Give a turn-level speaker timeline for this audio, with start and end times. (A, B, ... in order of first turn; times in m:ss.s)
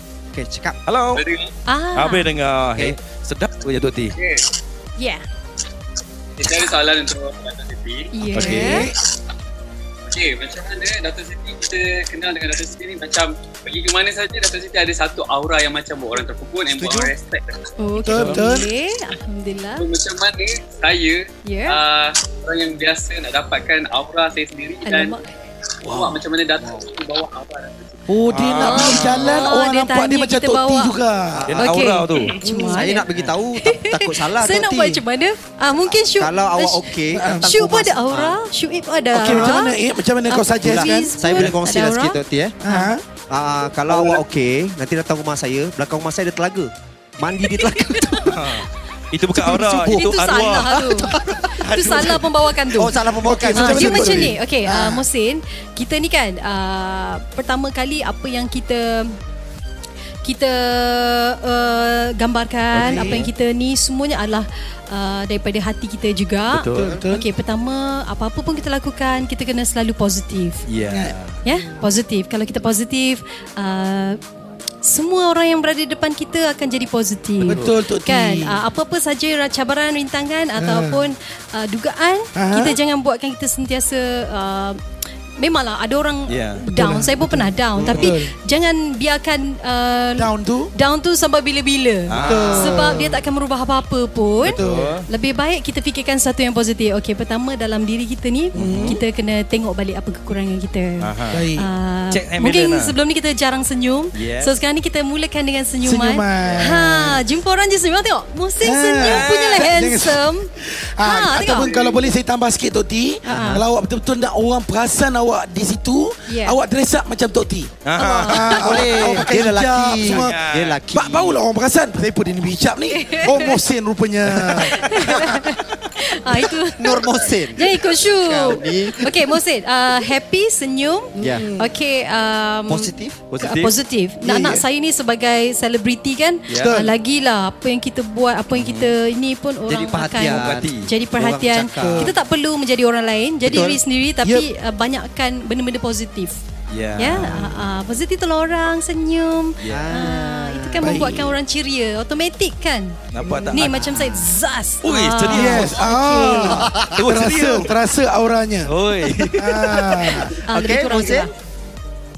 0:00.3-0:00.8 A
0:00.9-0:01.2 B
0:01.1-0:01.5 C
0:01.7-0:02.3 D
0:01.9-0:04.1 B
0:04.1-0:04.4 C
0:05.0-0:05.2 D
0:06.4-0:08.1 C
0:08.1-0:08.9 D
0:08.3-0:08.8 B
0:08.4-0:08.9 E
0:10.0-0:17.6 C
0:16.7-0:17.1 A
0:17.8-0:19.8 D
0:18.0-0:18.7 E
0:18.1-0:18.4 B
0:19.8-0:25.2 C
0:21.4-0:21.8 D
0:24.8-0:25.4 D
0:25.8-0:28.0 C
0:26.6-0:26.9 A
0:28.1-0:31.6 E
0:28.3-0:29.4 B
0:28.7-0:30.9 D
0:31.5-0:32.4 B
0:31.6-0:33.1 D
0:32.4-0:35.0 A
0:33.6-0:42.9 D
0:36.0-0:38.4 A
0:37.1-0:37.5 E
0:39.1-0:41.1 E
0:39.1-0:39.6 A
0:40.6-0:42.6 A
0:42.6-0:43.0 E
0:43.3-0:48.4 A
0:43.9-0:44.2 E
0:47.4-0:48.5 D
0:48.3-0:51.1 B
0:49.3-0:50.1 E
0:49.8-0:53.0 D
0:50.7-0:51.5 A
0:51.6-0:52.3 E
0:52.7-0:55.0 A
0:53.2-0:54.4 E
0:53.5-0:59.2 D
1:00.2-1:10.6 D
1:02.7-1:03.3 E
1:02.8-1:03.3 B
1:06.5-1:07.0 B
1:06.7-1:07.2 E
1:10.7-1:11.4 B
1:10.9-1:11.1 E
1:11.4-1:14.2 D
1:14.8-1:24.8 D
1:17.4-1:18.6 E
1:20.6-1:21.1 E
1:22.4-1:22.8 E
1:25.4-1:50.5 D
1:26.3-1:26.6 B
1:26.7-1:28.3 E
1:30.2-1:30.7 E
1:32.1-1:32.9 B
1:32.2-1:33.2 E
1:34.4-1:35.0 E
1:34.5-1:35.0 B
1:38.5-1:39.0 B
1:38.5-1:39.0 E
1:41.0-1:41.4 B
1:41.3-1:41.7 E
1:42.1-1:42.9 B
1:44.1-1:44.6 B
1:45.8-1:47.2 E
1:48.6-2:00.4 E
1:49.0-1:49.7 B
1:51.0-1:51.8 D
1:53.2-1:53.6 D
1:53.3-1:53.6 A
1:56.3-1:56.6 D
1:57.8-1:59.0 B
1:58.0-1:58.6 D
1:58.6-2:01.3 A
2:00.0-2:00.8 B
2:00.9-2:05.1 E
2:02.9-2:03.6 D
2:04.6-2:26.4 D
2:06.8-2:09.1 A
2:11.2-2:11.6 A
2:12.7-2:13.2 A
2:13.3-2:13.7 B
2:14.2-2:14.6 E
2:16.5-2:16.8 B
2:16.5-2:16.9 E
2:18.5-2:18.9 B
2:19.7-2:22.1 A
2:20.3-2:20.9 B
2:21.8-2:22.1 E
2:23.4-2:23.8 A
2:24.2-2:24.5 E
2:26.7-2:27.5 B
2:27.0-2:33.0 D
2:29.7-2:31.1 A
2:30.8-2:31.3 E
2:33.1-2:34.0 B
2:33.5-2:36.7 D
2:34.8-2:35.8 B
2:35.3-2:40.3 E
2:36.5-2:37.0 A
2:36.9-2:37.7 B
2:38.7-2:40.1 B
2:40.4-2:41.3 D
2:40.5-2:41.3 A